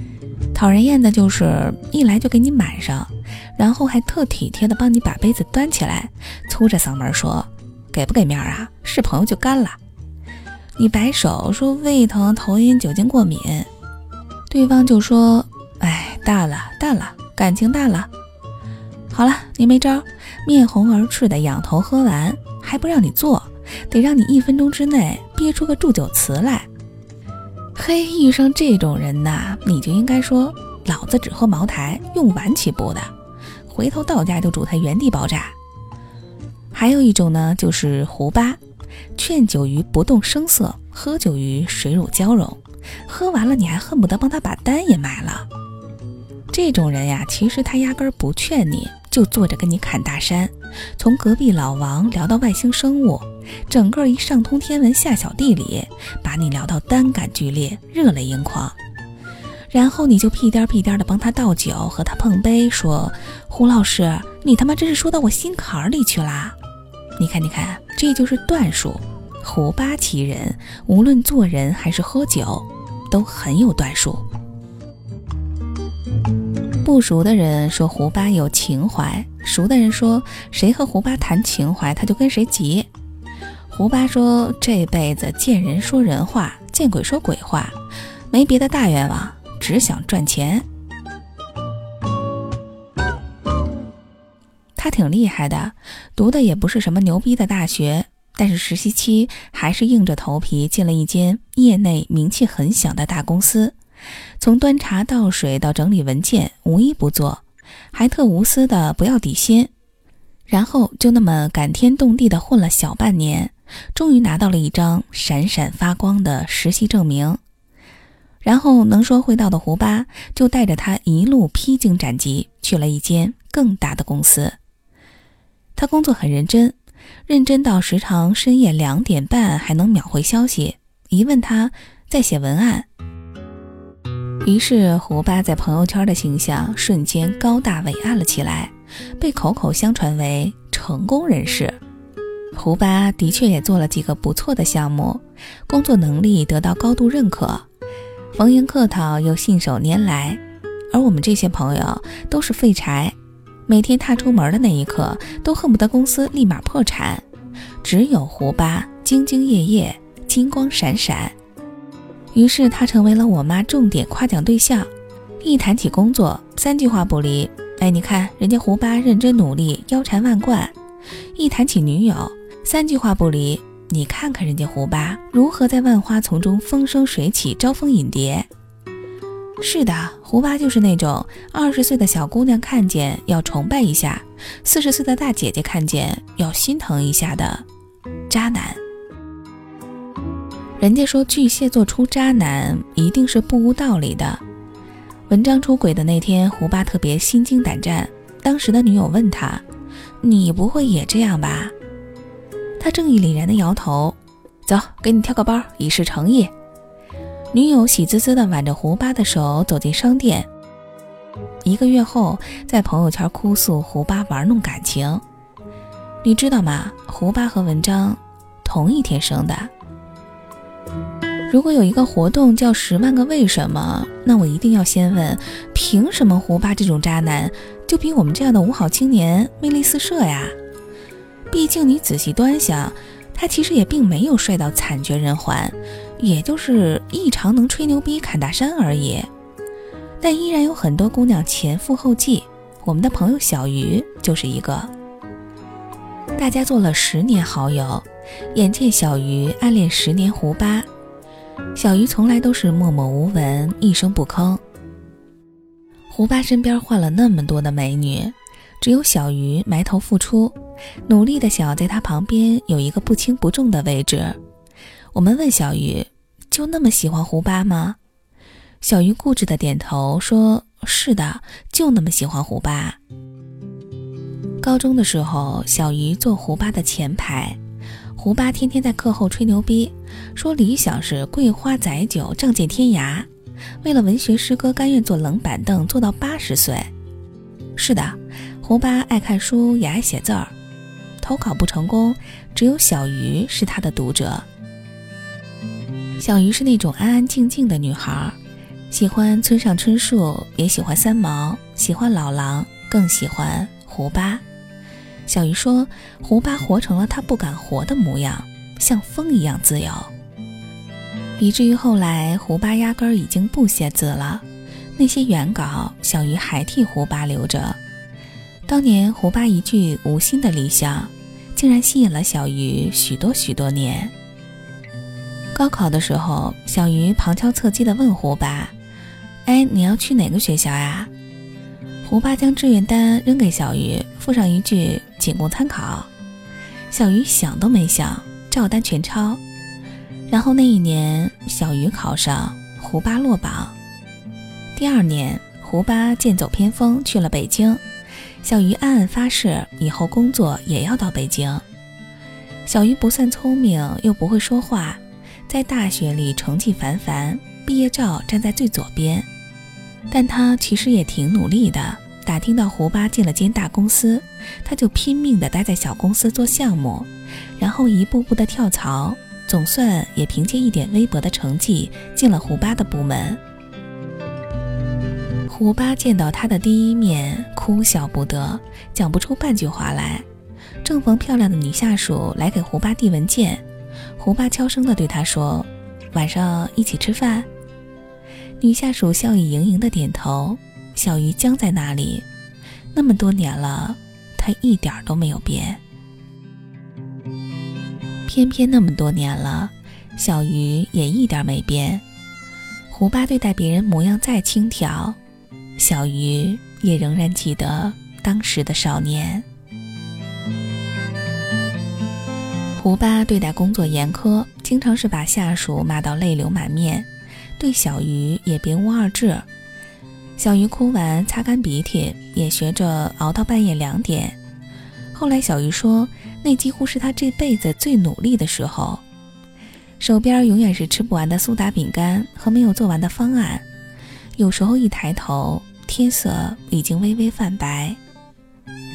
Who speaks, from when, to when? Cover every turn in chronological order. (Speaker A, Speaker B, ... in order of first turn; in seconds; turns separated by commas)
Speaker A: 0.5-9.8, Speaker A: 10.8-13.7, Speaker A: 14.5-18.1, Speaker A: 19.1-26.7, Speaker A: 27.7-33.1, Speaker A: 33.7-35.5, Speaker A: 36.7-38.6, Speaker A: 39.1-45.5, Speaker A: 46.5-58.8, Speaker A: 59.7-66.5, Speaker A: 67.2-74.2, Speaker A: 76.8-82.9, Speaker A: 83.7-87.8, Speaker A: 88.3-90.6, Speaker A: 94.8-103.8, Speaker A: 104.4-109.7, Speaker A: 110.5-117.4, Speaker A: 118.4-124.6, Speaker A: 125.8-126.8, Speaker A: 127.3-132.9, Speaker A: 134.4-141.8, Speaker A: 142.5-147.7, Speaker A: 148.3-150.4, Speaker A: 150.9-153.1, Speaker A: 153.7-157.2, Speaker A: 157.8-161.3, Speaker A: 162.3-164.9, Speaker A: 165.4-170.7, Speaker A: 171.3-178.5, Speaker A: 179.6-187.6, Speaker A: 188.3-188.8, Speaker A: 190.8-194.4, Speaker A: 195.3-199.6, Speaker A: 200.2-201.7, Speaker A: 202.8-206.5, Speaker A: 207.5-210.5, Speaker A: 211.6-215.2, Speaker A: 216.2-219.7, Speaker A: 221.5-230.6, Speaker A: 231.5-239.3, Speaker A: 240.2-244.9, Speaker A: 246.3-250.9, Speaker A: 251.7-254.6, Speaker A: 256.1-264.4, Speaker A: 265.1-268.0, Speaker A: 268.8-273.0, Speaker A: 274.6-277.6, Speaker A: 278.1-283.3, Speaker A: 283.8-286.9, Speaker A: 287.8-290.5, Speaker A: 291.2-294.4, Speaker A: 296.2-298.4, Speaker A: 298.9-304.4, Speaker A: 305.2-310.1, Speaker A: 311.4-314.4, Speaker A: 315.0-317.8, Speaker A: 318.7-324.1, Speaker A: 325.5-328.7, Speaker A: 329.4-331.1, Speaker A: 332.0-336.1, Speaker A: 336.9-339.4, Speaker A: 340.3-343.7, Speaker A: 344.8-347.8, Speaker A: 348.4-351.6, Speaker A: 352.6-359.3, Speaker A: 360.1-373.4, Speaker A: 375.5-380.2, Speaker A: 380.8-383.6, Speaker A: 384.2-387.5, Speaker A: 388.6-392.2, Speaker A: 392.9-395.8, Speaker A: 398.2-402.0, Speaker A: 402.9-405.2, Speaker A: 405.8-409.4, Speaker A: 412.8-417.1, Speaker A: 417.6-419.4, Speaker A: 420.4-424.4, Speaker A: 425.1-429.0, Speaker A: 430.0-433.6, Speaker A: 434.4-438.0